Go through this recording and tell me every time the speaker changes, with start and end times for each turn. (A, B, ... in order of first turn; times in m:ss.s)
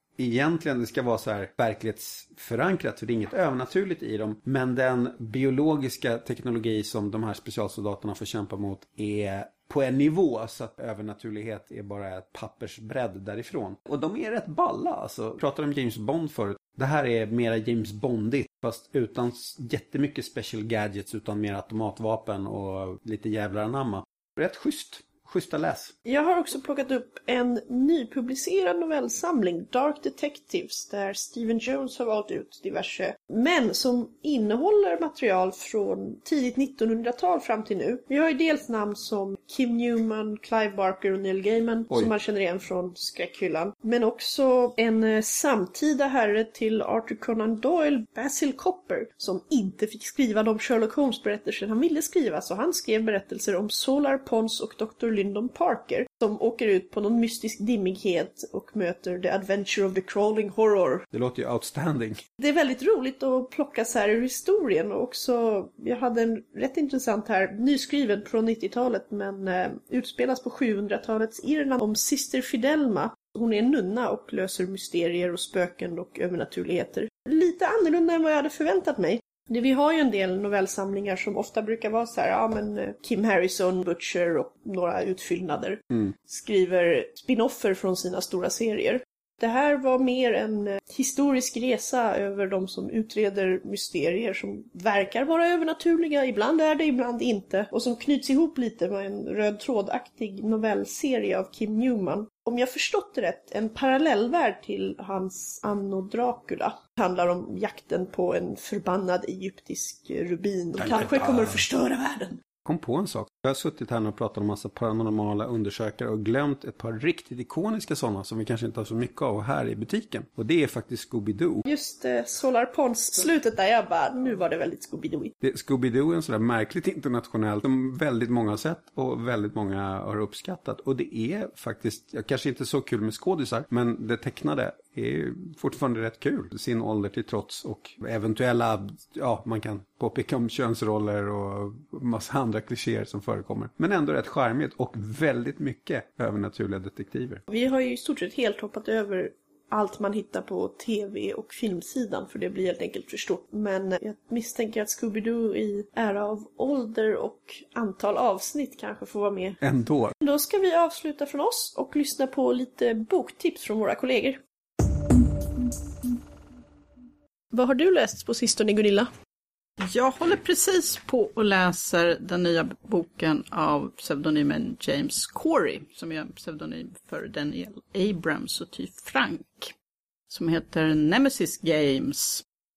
0:00.2-0:25.9 A
0:26.0-1:01.1 B
1:01.1-1:02.2 A
1:02.4-1:52.4 B
1:50.8-1:51.6 A
1:52.6-2:01.6 A
2:01.6-2:05.3 B
2:05.4-2:27.4 A
2:27.5-2:39.6 B
2:39.6-2:40.1 A
2:40.2-2:44.4 B
2:47.5-2:49.1 B
2:49.8-2:59.7 C
3:00.3-3:02.4 C